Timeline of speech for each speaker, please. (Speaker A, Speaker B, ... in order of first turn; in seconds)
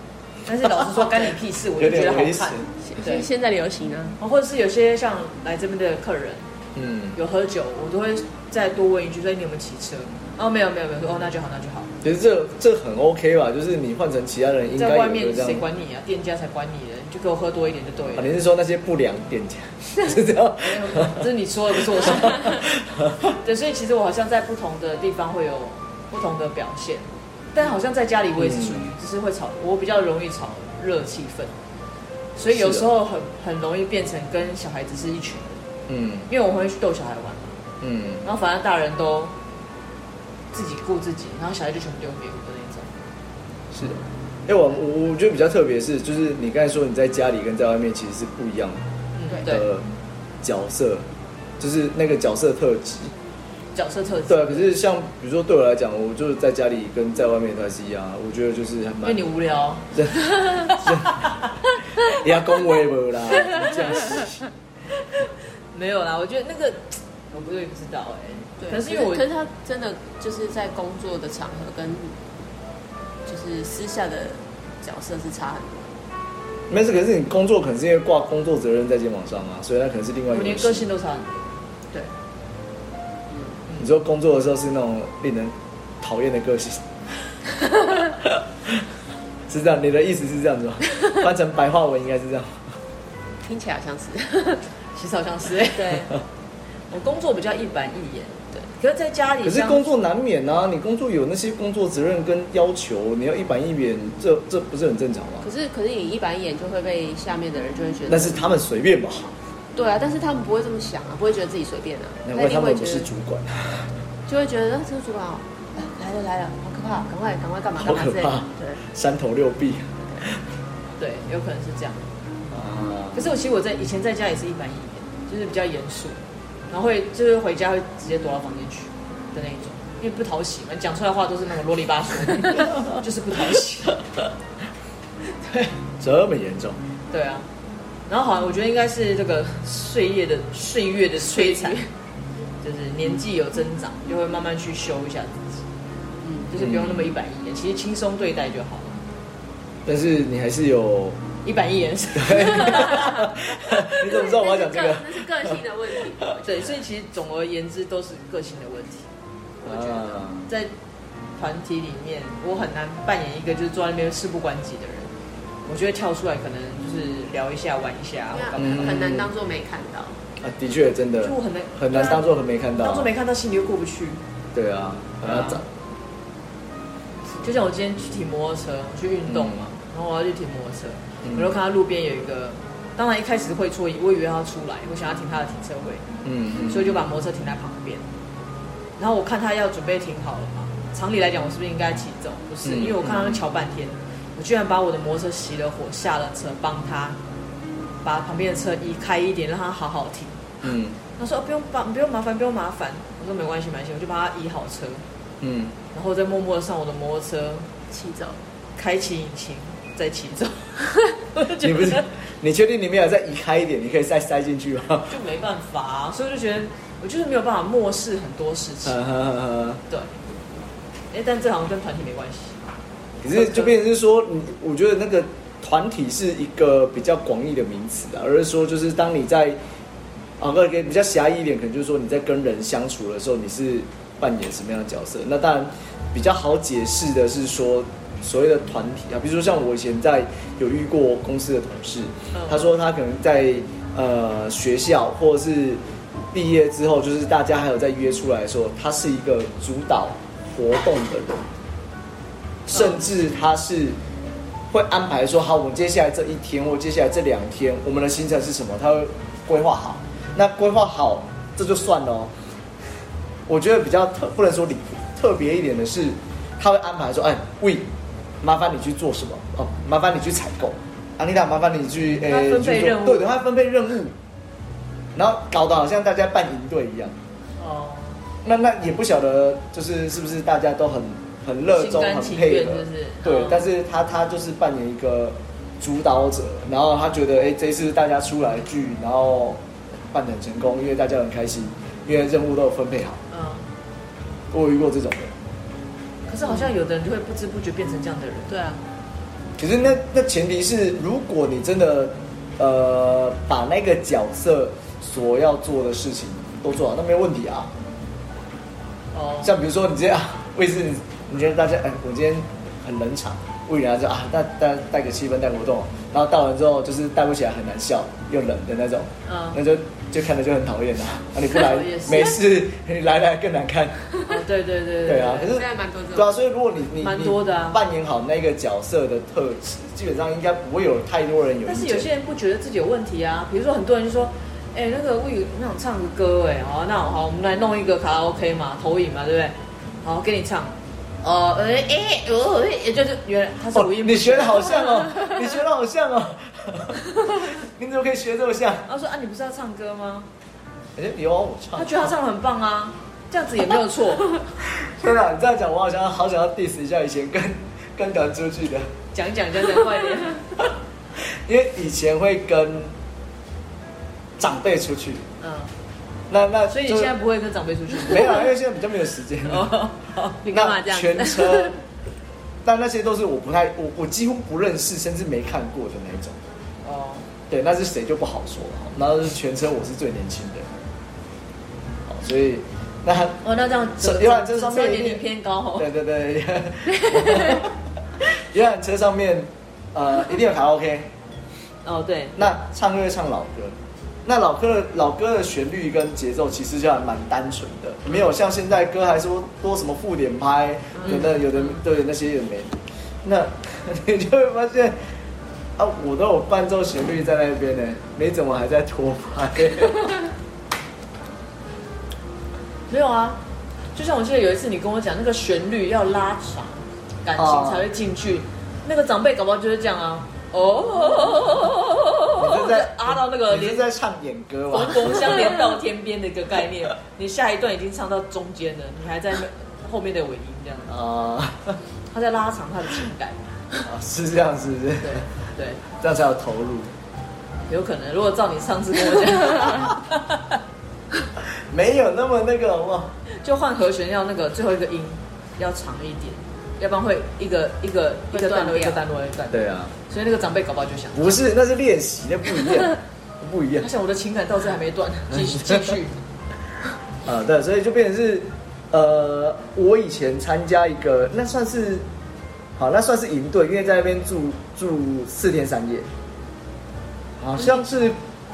Speaker A: 0.5-3.2, 4.2-6.5, 7.1-11.9, 14.7-18.4, 20.6-22.7, 23.4-31.5, 32.4-35.6, 36.3-37.6, 38.2-39.3, 40.5-43.0, 49.1-49.7, 53.7-54.7, 59.0-61.3, 63.5-63.8, 65.1-69.2, 80.3-82.1, 95.0-96.1, 96.9-100.0, 121.0-122.1, 123.1-134.0, 137.1-137.5, 138.1-141.8, 142.6-145.6, 146.5-149.0, 151.4-153.3, 156.4-159.1, 159.6-160.7, 161.4-165.1, 165.7-169.0, 171.2-174.2, 175.2-175.6, 177.4-186.0, 186.7-188.0, 189.0-197.2, 198.0-200.4, 201.2-205.0, 205.9-207.7, 208.8-212.0, 215.1-219.0, 219.9-220.1, 221.1-222.6, 223.3-223.7, 252.7-253.0, 272.2-273.3, 277.6-278.2, 281.7-283.7, 293.3-293.6, 296.3-298.5, 309.1-309.5, 319.2-319.6, 321.5-322.4, 324.2-325.5, 327.0-327.8, 331.6-345.4, 348.9-350.3, 351.8-354.4, 359.1-360.6, 365.4-365.7, 366.7-368.5, 369.4-370.5, 376.8-377.3, 383.4-385.9, 391.8-392.4, 401.0-401.8, 412.9-413.4, 413.9-423.9, 424.7-430.9, 432.1-433.4, 435.0-435.8, 437.7-440.6, 443.4-451.4, 453.8-456.2
Speaker B: 1.8-2.7, 6.8-7.2, 12.0-15.6, 18.1-21.2, 21.9-23.3, 28.4-28.9, 32.5-32.9, 35.9-36.3, 37.8-38.2, 43.7-48.8, 49.4-49.9, 50.4-51.0, 51.6-53.1, 54.3-59.2, 59.9-61.2, 62.0-64.4, 76.7-80.9, 83.8-86.8, 88.1-88.8, 89.5-92.7, 99.4-105.5, 108.1-109.3, 112.2-113.9, 117.8-120.4, 122.5-123.2, 136.0-136.8, 146.6-147.1, 149.8-151.2, 152.2-156.1, 159.6-160.4, 168.6-169.3, 170.4-173.1, 174.5-175.6, 179.3-179.7, 181.2-181.5, 186.2-187.0, 192.6-193.4, 200.6-201.0, 205.4-205.8, 211.6-215.1, 218.8-219.8, 223.2-229.6, 230.4-245.8, 246.3-251.5, 252.7-253.9, 254.7-262.3, 263.5-267.9, 268.4-274.1, 275.1-277.1, 278.4-293.2, 294.5-295.3, 299.6-307.7, 309.4-324.1, 325.0-332.1, 343.7-348.8, 350.9-352.1, 354.7-358.9, 361.2-362.9, 364.4-365.3, 366.3-367.1, 368.0-369.8, 370.5-371.8, 372.6-376.4, 377.5-380.7, 382.1-383.4, 384.0-385.2, 385.8-391.1, 392.4-404.9, 405.8-410.2, 417.4-417.8, 422.4-425.6, 430.9-431.8, 433.8-435.3, 435.9-436.9, 441.7-443.1, 449.5-449.9, 451.1-453.9, 455.3-455.9, 457.2-462.1, 462.8-466.1, 467.4-468.2
Speaker C: 2.8-4.2, 68.6-72.2, 73.2-75.9, 83.3-83.6, 93.4-94.6, 95.7-96.1, 105.4-108.4, 109.7-113.1, 114.3-118.8, 141.2-141.9, 146.2-146.5, 154.0-156.7, 168.3-170.2, 207.9-208.4, 298.5-298.8, 325.5-326.4, 370.4-371.8, 448.3-449.0